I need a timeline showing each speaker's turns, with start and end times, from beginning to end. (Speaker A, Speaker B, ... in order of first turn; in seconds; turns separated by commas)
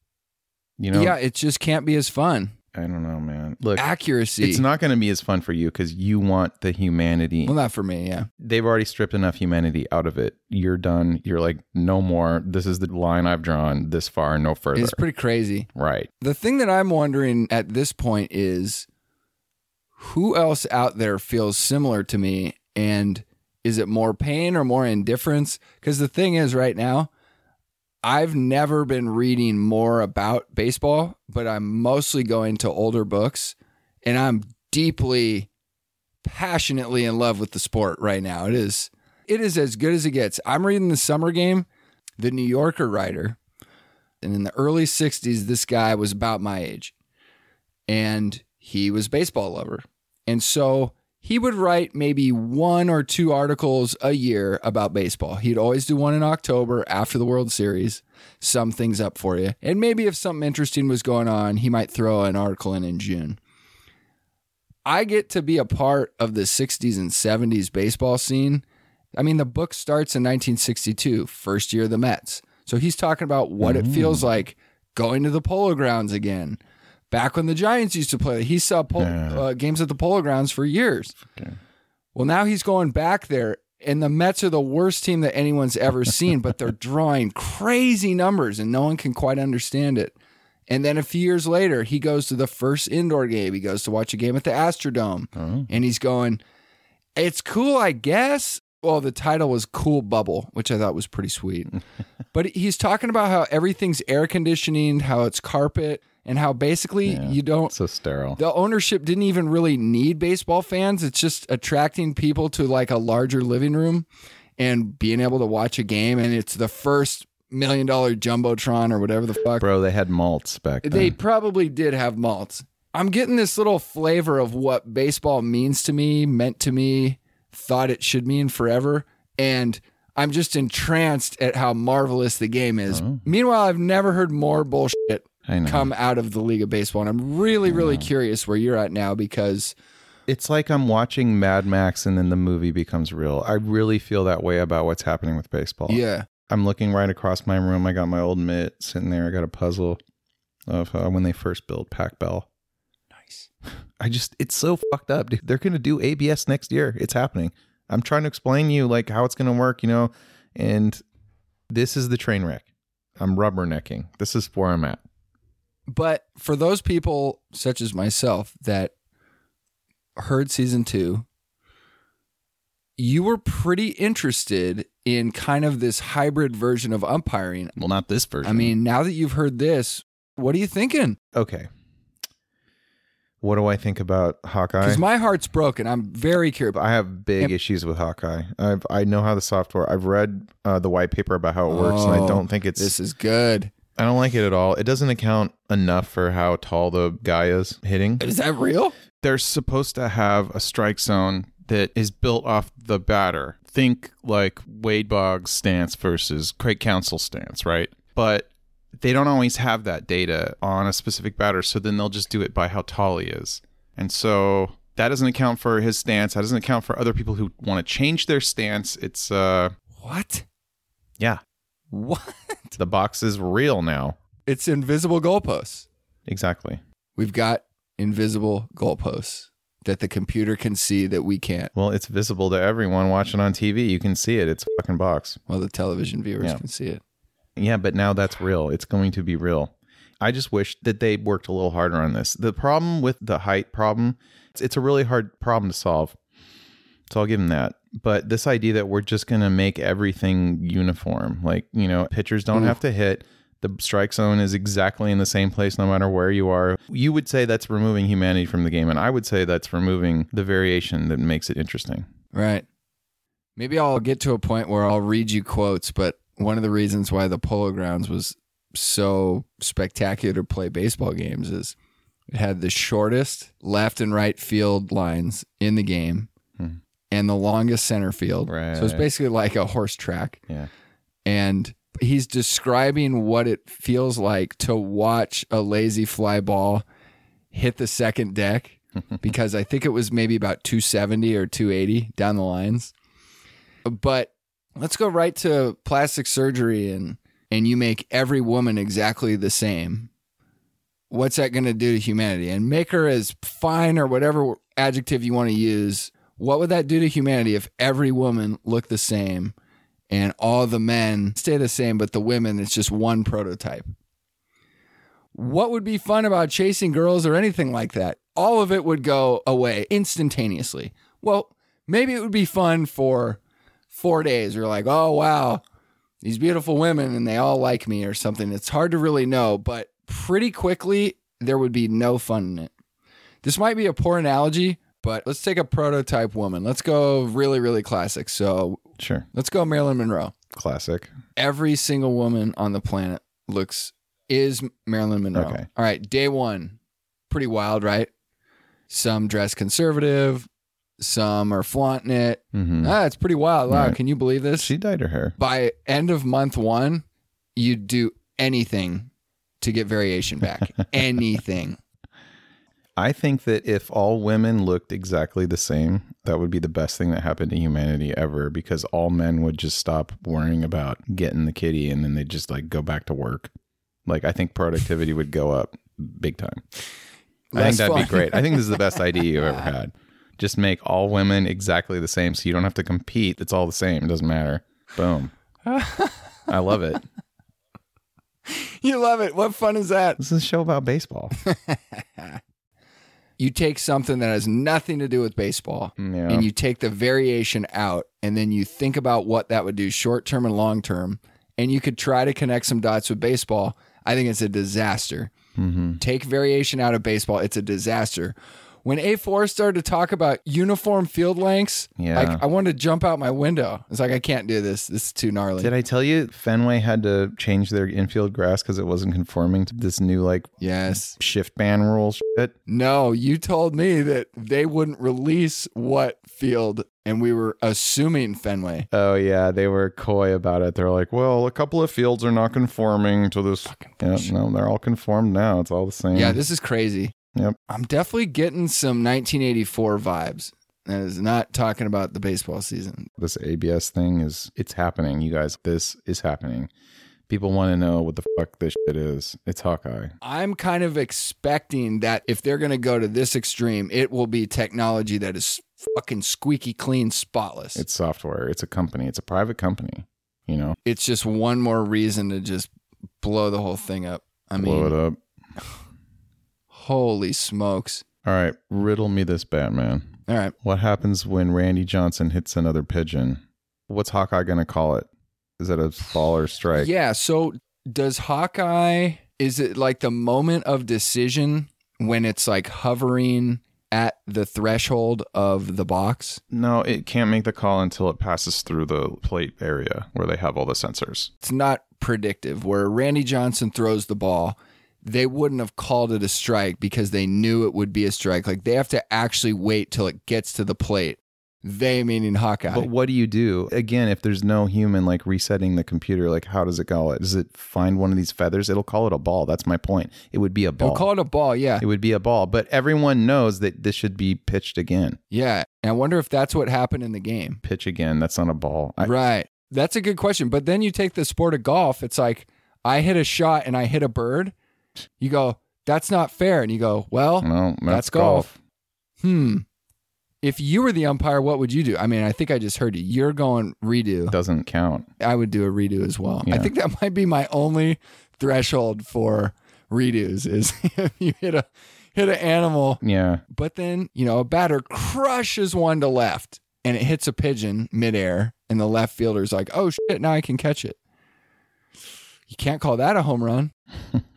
Speaker A: 0.8-1.1, Speaker B: 0.9-2.5, Speaker A: 2.7-3.8, Speaker B: 3.8-4.6, Speaker A: 4.4-7.5, Speaker B: 7.5-8.3, Speaker A: 8.4-15.0, Speaker B: 14.7-15.7, Speaker A: 15.7-16.1, Speaker B: 16.2-18.9, Speaker B: 20.0-27.1, Speaker B: 28.0-35.5, Speaker B: 36.2-41.7, Speaker B: 42.2-43.4, Speaker B: 44.2-46.9, Speaker B: 47.9-63.4, Speaker B: 64.8-68.6, Speaker B: 69.2-76.6, Speaker A: 73.6-74.3, Speaker B: 77.1-81.2, Speaker A: 79.0-79.4, Speaker A: 81.2-81.6, Speaker B: 82.1-90.1, Speaker B: 90.7-96.4, Speaker A: 95.4-95.7, Speaker B: 97.2-101.8, Speaker B: 102.3-107.7, Speaker A: 107.0-108.4, Speaker B: 108.4-114.1, Speaker B: 114.6-119.7, Speaker A: 119.6-121.1, Speaker B: 120.8-139.7, Speaker A: 132.9-133.2, Speaker A: 135.5-135.9, Speaker A: 137.7-138.1, Speaker A: 140.3-150.0, Speaker B: 145.9-146.3, Speaker A: 150.7-152.5, Speaker B: 153.2-153.5, Speaker A: 154.0-161.0, Speaker A: 161.7-162.6, Speaker A: 163.2-165.0, Speaker B: 165.9-168.9, Speaker B: 170.2-171.2, Speaker B: 173.0-177.7, Speaker A: 177.8-178.7, Speaker B: 178.4-181.2, Speaker A: 181.3-181.7, Speaker A: 183.4-185.0, Speaker B: 184.8-186.8, Speaker A: 186.7-192.9, Speaker B: 191.7-193.7, Speaker A: 194.0-198.2, Speaker B: 198.2-198.9, Speaker A: 199.2-219.7, Speaker B: 220.0-220.4, Speaker B: 221.9-222.8, Speaker A: 222.8-224.2, Speaker B: 224.4-225.9, Speaker A: 226.3-226.8, Speaker B: 227.2-231.7, Speaker A: 231.7-235.4, Speaker B: 235.5-237.0, Speaker A: 237.6-246.2, Speaker A: 247.1-262.0, Speaker B: 262.3-262.6, Speaker B: 263.6-271.7, Speaker B: 272.3-276.3, Speaker B: 277.1-280.4, Speaker A: 278.5-279.1, Speaker B: 281.2-286.8, Speaker B: 287.5-292.9, Speaker B: 293.8-300.1, Speaker B: 301.1-309.5, Speaker B: 310.1-313.9, Speaker B: 315.3-323.4, Speaker B: 323.9-325.6, Speaker B: 326.2-332.7, Speaker B: 333.4-338.8, Speaker A: 339.0-339.3, Speaker B: 339.3-340.3, Speaker A: 340.5-341.1, Speaker B: 341.4-346.8, Speaker A: 345.3-345.6, Speaker B: 347.3-348.1, Speaker B: 348.9-350.5, Speaker B: 351.0-354.7, Speaker A: 352.5-352.9, Speaker A: 353.7-354.0, Speaker A: 354.6-355.4, Speaker B: 355.4-357.0, Speaker B: 357.6-361.8, Speaker A: 363.0-373.5, Speaker A: 374.1-376.6, Speaker B: 377.5-379.7, Speaker A: 377.5-385.3, Speaker B: 385.6-386.4, Speaker A: 386.5-387.0, Speaker B: 388.5-390.2, Speaker A: 390.2-391.4, Speaker B: 391.4-392.4, Speaker B: 393.4-405.3, Speaker A: 396.0-396.5, Speaker A: 405.6-406.0, Speaker B: 406.0-415.7, Speaker A: 412.0-412.4, Speaker A: 415.6-422.5, Speaker B: 420.6-421.1, Speaker B: 422.7-428.9, Speaker A: 428.9-436.4, Speaker B: 433.7-434.3, Speaker B: 436.1-437.1, Speaker B: 437.7-443.1, Speaker A: 443.2-446.7, Speaker A: 447.3-450.1, Speaker B: 450.2-457.8, Speaker A: 457.8-460.8, Speaker B: 460.8-462.7, Speaker B: 463.2-464.9, Speaker A: 464.6-465.2, Speaker B: 466.7-468.0, Speaker A: 468.2-470.1, Speaker B: 470.3-470.5, Speaker A: 470.6-476.9, Speaker B: 476.7-486.4, Speaker A: 486.5-491.3, Speaker B: 491.4-502.9, Speaker A: 502.7-511.1, Speaker B: 510.8-511.8, Speaker A: 511.8-515.2, Speaker B: 515.3-517.6, Speaker A: 517.6-519.1, Speaker B: 519.0-524.5, Speaker B: 525.2-528.5, Speaker A: 527.4-528.6, Speaker B: 529.2-529.6, Speaker B: 530.4-534.3, Speaker A: 534.3-535.1, Speaker B: 535.2-551.0, Speaker A: 536.4-536.7, Speaker A: 543.0-543.4, Speaker B: 552.5-553.7